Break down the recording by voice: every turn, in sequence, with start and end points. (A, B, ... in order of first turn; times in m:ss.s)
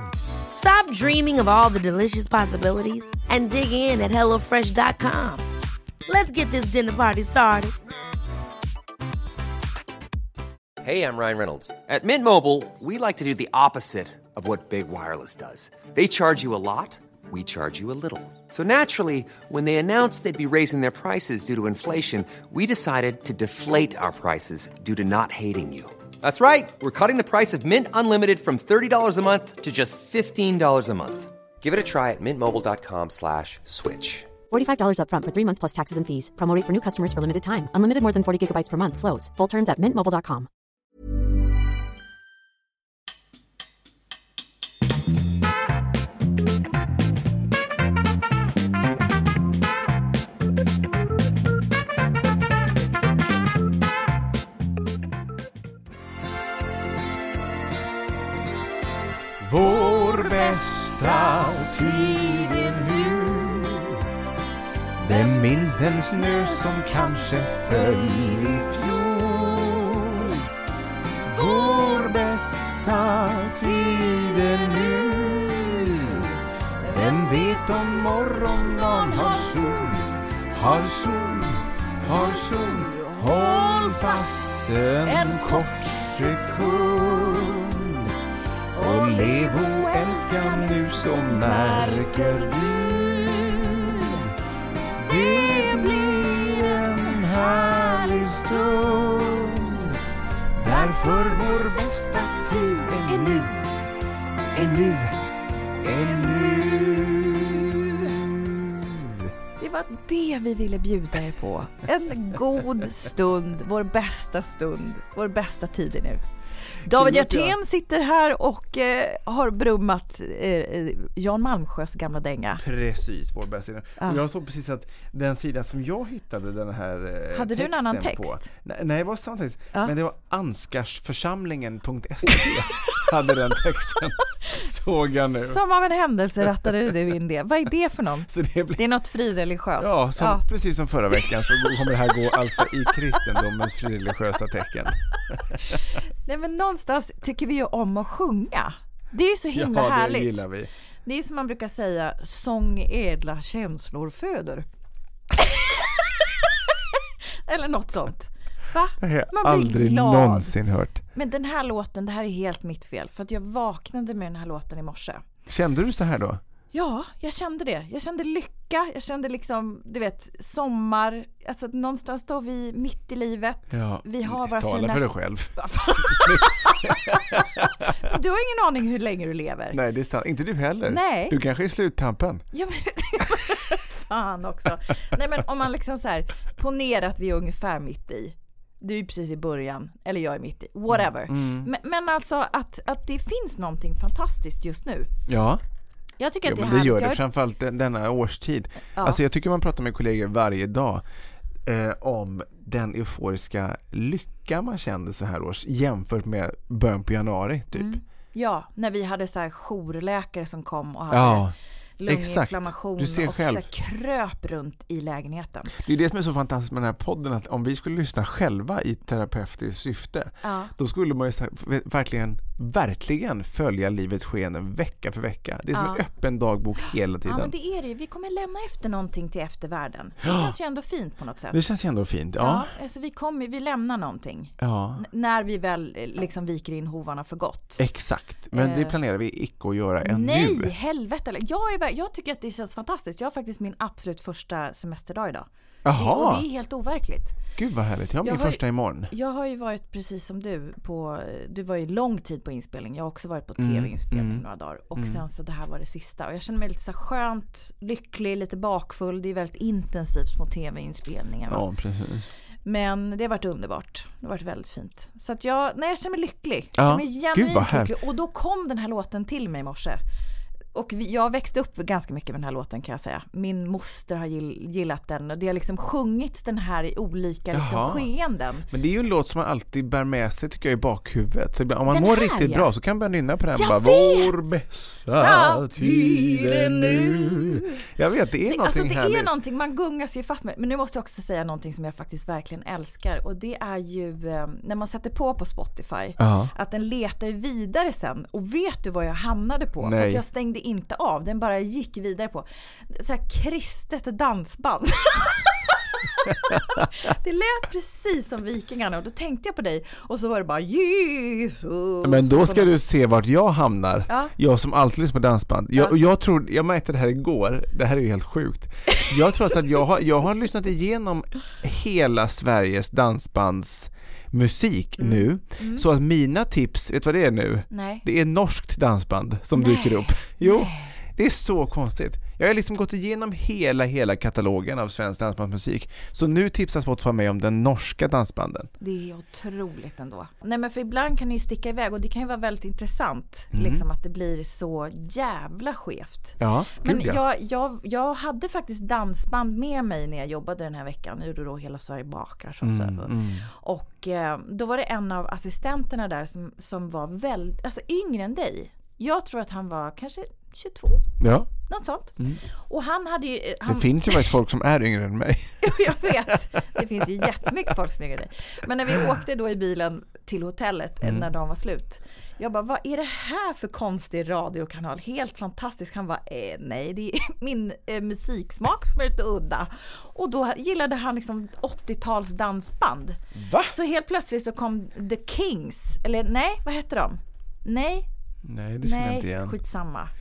0:00.5-0:05.4 A
0:06.1-0:07.7 A
0:10.8-0:34.3 B
0:34.5-0:40.5 C
0:59.4-1:04.0 D
0:59.8-1:00.6 E
1:01.3-1:03.1 E
1:05.0-1:10.4 D
1:06.1-1:09.0 E
1:11.3-1:16.3 D
1:11.3-1:12.8 E
1:13.8-1:16.1 E
1:16.8-1:20.0 E
1:16.9-1:28.1 D
1:22.1-1:27.4 E
1:28.8-1:33.1 E
1:28.8-1:34.3 D
1:33.8-1:34.2 E
1:35.0-1:40.0 D
1:35.0-1:38.8 E
1:40.6-1:43.7 D
1:40.7-1:43.5 E
1:44.5-1:45.2 D
1:45.8-1:49.3 D
1:46.1-1:47.2 E
1:49.6-1:56.2 E
1:56.8-2:02.6 E
1:56.8-1:57.6 D
2:02.6-2:15.6 D
2:07.3-2:08.5 E
2:14.5-2:20.4 E
2:16.4-2:16.9 D
2:18.3-2:18.8 D
2:19.8-2:25.7 D
2:22.3-2:22.9 E
2:25.7-2:30.4 E
2:29.5-2:30.7 D
2:31.0-2:34.7 E
2:35.4-2:40.6 E
2:39.0-2:41.0 D
2:41.2-2:45.2 E
2:45.5-2:46.4 D
2:46.7-2:59.8 E
2:53.7-2:57.9 D
2:59.7-3:02.4 D
3:00.9-3:01.4 E
3:02.5-3:15.1 E
3:10.9-3:11.7 D
3:15.3-3:15.6 D
3:16.2-3:17.2 E
3:16.4-3:21.0 D
3:21.6-3:28.0 D
3:27.8-3:35.8 E
3:31.1-3:31.6 D
3:32.1-3:33.7 D
3:35.7-3:47.5 D
3:40.4-3:40.7 E
3:45.7-3:46.0 E
3:47.2-3:51.6 E
3:50.2-3:50.5 D
3:51.5-3:52.7 D
3:52.4-3:57.8 E
3:54.6-3:55.0 D
3:57.8-4:00.7 D
3:58.5-3:59.0 E
4:00.0-4:07.4 E
4:05.8-4:06.4 D
4:07.6-4:09.1 D
4:08.2-4:21.6 E
4:13.6-4:14.4 D
4:15.0-4:15.2 D
4:21.5-4:22.3 D
4:22.6-4:30.0 E
4:26.8-4:27.9 D
4:30.8-4:38.7 E
4:37.5-4:38.1 D
4:38.7-4:49.3 D
4:41.9-4:42.7 E
4:43.6-4:44.5 E
4:45.2-4:47.8 E
4:48.5-5:12.8 E
4:56.2-4:56.5 D
4:59.8-5:00.2 D
5:06.3-5:06.9 D
5:12.0-5:38.7 D
5:14.1-5:14.3 E
5:25.0-5:25.9 E
5:27.7-5:28.0 E
5:29.6-5:31.0 E
5:38.8-6:01.1 E
5:43.5-5:43.8 D
5:46.4-5:47.2 D
5:52.6-5:53.5 D
6:01.2-6:01.5 D
6:01.7-6:04.3 E
6:03.7-6:06.8 D
6:05.6-6:28.1 E
6:23.3-6:23.8 D
6:28.4-6:29.6 D
6:28.8-6:30.1 E